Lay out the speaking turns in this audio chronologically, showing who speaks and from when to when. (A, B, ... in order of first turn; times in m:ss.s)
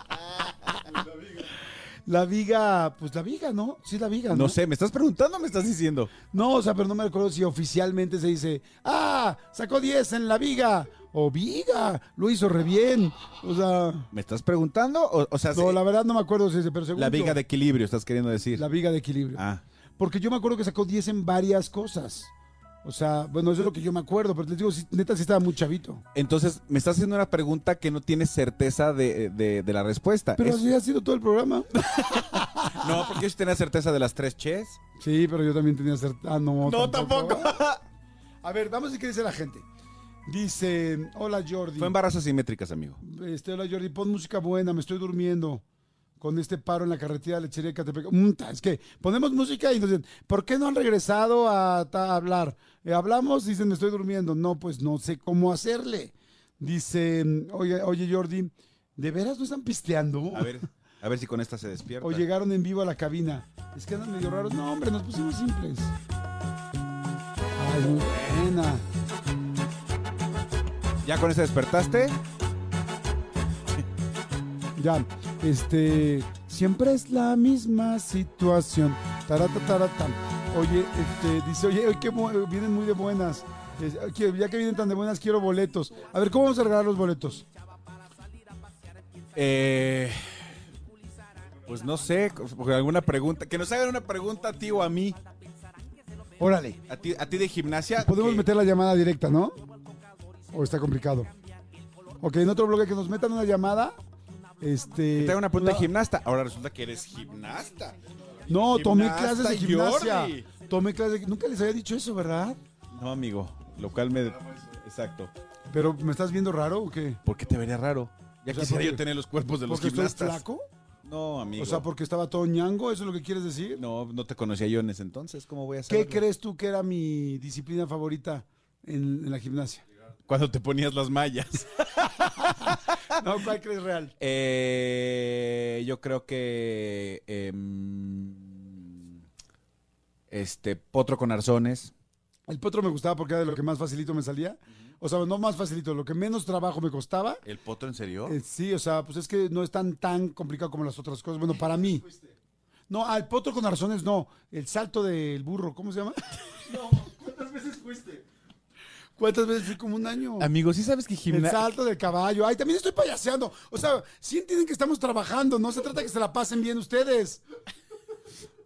0:02.0-0:04.6 A
0:04.3-0:06.1 B
0:06.3-0:14.1 A
0:14.1-0:15.8 B
0:15.5-0:17.4 A
0:16.9-0:18.6 B
0:18.5-0:19.4 A
0:19.3-0:19.6 B
0:20.0-0:22.3 A
0:22.8-0:26.0 A
0:26.1-0:30.6 B
0:30.4-0:33.1 A
0:31.8-0:34.8 B
0:35.0-0:37.5 A
0:36.6-0:37.8 B
0:38.4-0:39.6 A
0:40.2-0:42.0 A
0:41.8-0:43.0 B
0:43.0-0:45.6 A
0:46.2-1:00.5 A
1:00.3-1:02.2 B
1:02.0-1:05.9 A
1:07.6-1:08.8 A
1:11.0-1:12.2 B
1:14.8-1:27.4 A
1:29.3-1:30.5 B
1:31.6-1:35.2 B
1:36.4-1:36.8 A
1:36.8-1:38.5 B
1:38.0-1:39.6 A
1:40.5-1:41.3 A
1:42.2-1:43.9 A
1:44.6-1:45.9 A
1:45.1-1:48.0 B
1:48.5-1:52.6 A
1:48.7-1:50.5 B
1:52.9-1:55.3 B
1:55.7-1:57.2 A
1:57.2-2:00.4 B
1:58.5-1:59.0 A
1:59.6-2:00.6 A
2:01.0-2:01.9 B
2:01.6-2:03.8 A
2:03.8-2:06.2 B
2:05.9-2:09.8 A
2:10.2-2:12.9 B
2:13.1-2:14.1 A
2:14.2-2:19.2 B
2:20.3-2:21.9 B
2:22.5-2:27.4 A
2:27.4-2:28.4 B
2:28.2-2:32.1 A
2:32.9-2:36.6 A
2:36.7-2:38.2 B
2:39.2-2:40.5 A
2:40.4-2:41.7 B
2:41.3-2:47.4 A